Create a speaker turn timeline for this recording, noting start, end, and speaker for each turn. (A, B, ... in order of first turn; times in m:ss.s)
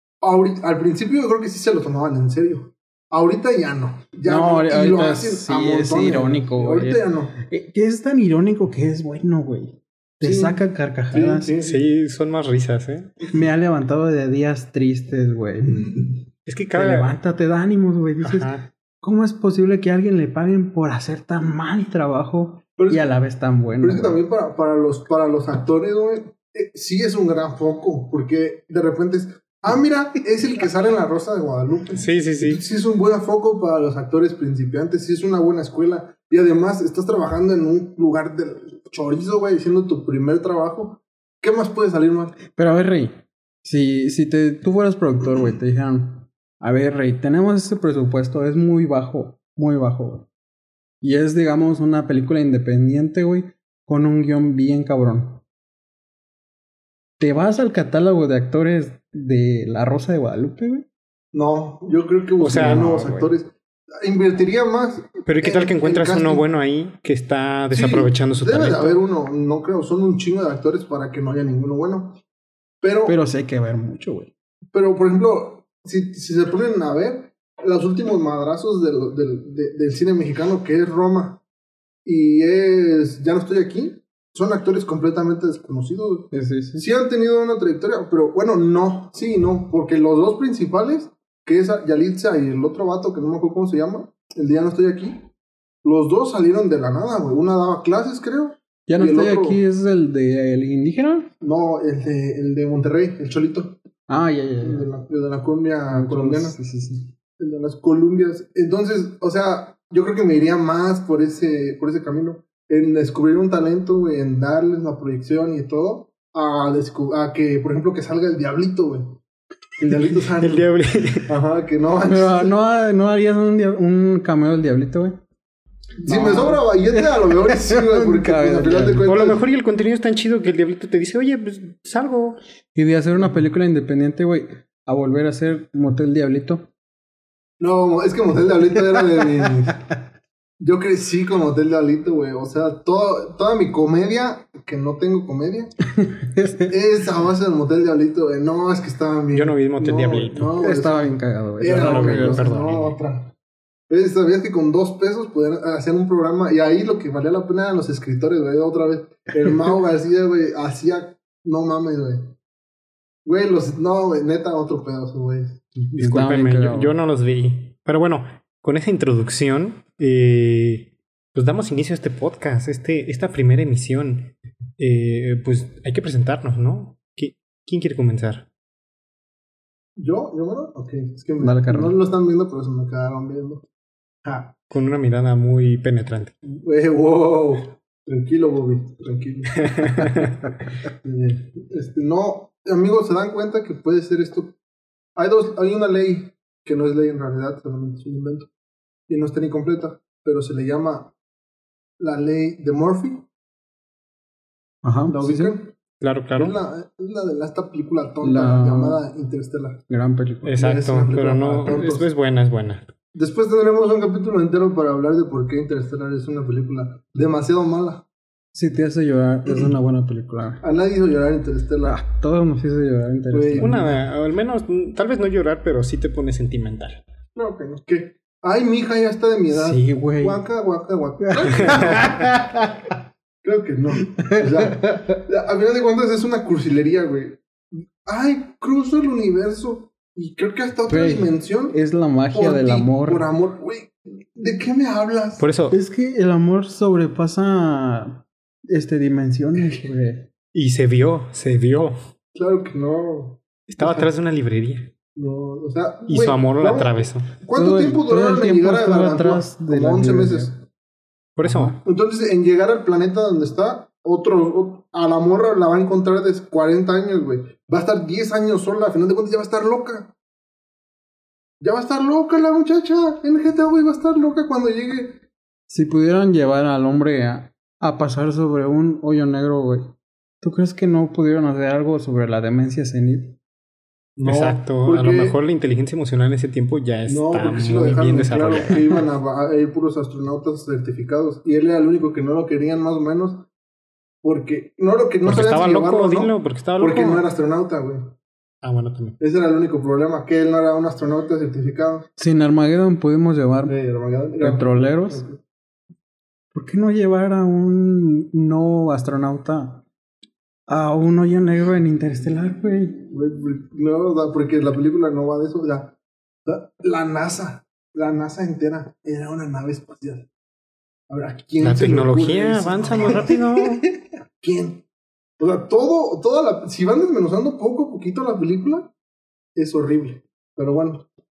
0:00.2-0:07.4 A
0:04.3-0:11.5 B
0:10.2-0:11.8 A
0:11.6-0:13.2 C
0:13.3-0:16.2 B
0:16.5-0:17.2 C
0:16.7-0:24.2 B
0:18.2-0:18.7 C
0:22.8-0:23.0 A
0:23.8-0:42.4 A
0:31.9-0:32.6 C
0:42.5-0:50.3 B
0:51.0-0:55.4 B
0:57.2-1:00.9 B
1:01.3-1:06.4 A
1:02.4-1:03.0 C
1:02.4-1:03.3 B
1:05.3-1:09.0 C
1:07.7-1:12.2 A
1:12.8-1:13.2 A
1:13.1-1:14.3 B
1:14.7-1:21.4 A
1:22.0-1:35.3 A
1:26.3-1:26.8 B
1:35.8-1:39.6 A
1:38.9-1:41.3 B
1:41.4-1:43.8 A
1:44.1-1:44.8 B
1:44.6-1:46.6 A
1:45.9-1:47.1 B
1:47.4-1:59.2 A
1:59.8-2:00.7 A
2:00.4-2:01.3 C
2:01.2-2:02.5 A
2:02.0-2:05.2 B
2:06.0-2:09.4 A
2:06.0-2:09.0 B
2:09.0-2:12.4 C
2:12.8-2:16.7 B
2:17.6-2:19.8 A
2:19.2-2:20.0 B
2:20.6-2:25.7 A
2:26.0-2:26.7 B
2:26.6-2:33.3 A
2:29.3-2:30.6 C
2:30.6-2:32.5 B
2:31.7-2:33.0 C
2:33.9-2:42.3 A
2:43.2-2:45.6 A
2:45.9-2:47.0 B
2:46.0-2:58.5 C
3:00.0-3:03.6 A
3:01.4-3:02.0 B
3:04.2-3:04.6 A
3:04.7-3:06.3 C
3:06.4-3:10.3 A
3:09.6-3:10.4 C
3:10.9-3:14.5 A
3:15.2-3:18.5 A
3:19.1-3:21.1 A
3:22.0-3:23.2 A
3:24.8-3:25.6 B
3:25.1-3:25.7 A
3:26.0-3:26.6 C
3:26.4-3:29.8 A
3:28.2-3:29.0 B
3:29.9-3:30.6 B
3:30.4-3:32.9 C
3:30.6-3:32.1 A
3:33.1-3:38.0 A
3:38.5-3:40.6 B
3:40.6-3:42.0 A
3:41.8-3:43.9 B
3:43.3-3:43.9 A
3:43.6-3:47.0 C
3:47.4-3:52.5 A
3:49.5-3:50.4 B
3:51.2-3:52.9 B
3:51.6-3:52.1 C
3:53.4-4:01.8 A
3:54.0-3:55.2 B
4:00.9-4:03.3 B
4:02.3-4:05.5 A
4:05.4-4:05.8 C
4:05.7-4:10.3 B
4:10.5-4:12.0 C
4:12.4-4:14.1 A
4:13.7-4:14.9 C
4:15.2-4:20.6 A
4:16.1-4:17.3 C
4:17.6-4:20.5 B
4:21.4-4:21.8 C
4:21.4-4:21.8 B
4:21.8-4:30.1 A
4:31.6-4:35.2 A
4:35.7-4:43.4 B
4:44.2-4:45.4 A
4:44.2-4:48.9 C
4:47.1-4:53.5 A
4:54.2-4:58.1 A
4:55.2-4:57.2 C
4:58.6-4:59.2 C
4:59.2-5:02.1 A
5:02.2-5:03.8 B
5:03.7-5:05.4 A
5:04.4-5:05.2 B
5:06.5-5:09.8 B
5:10.7-5:13.0 B
5:13.1-5:20.3 A
5:21.1-5:23.4 A
5:21.6-5:23.8 C
5:24.4-5:24.8 A
5:25.4-5:28.9 A
5:29.6-5:31.1 A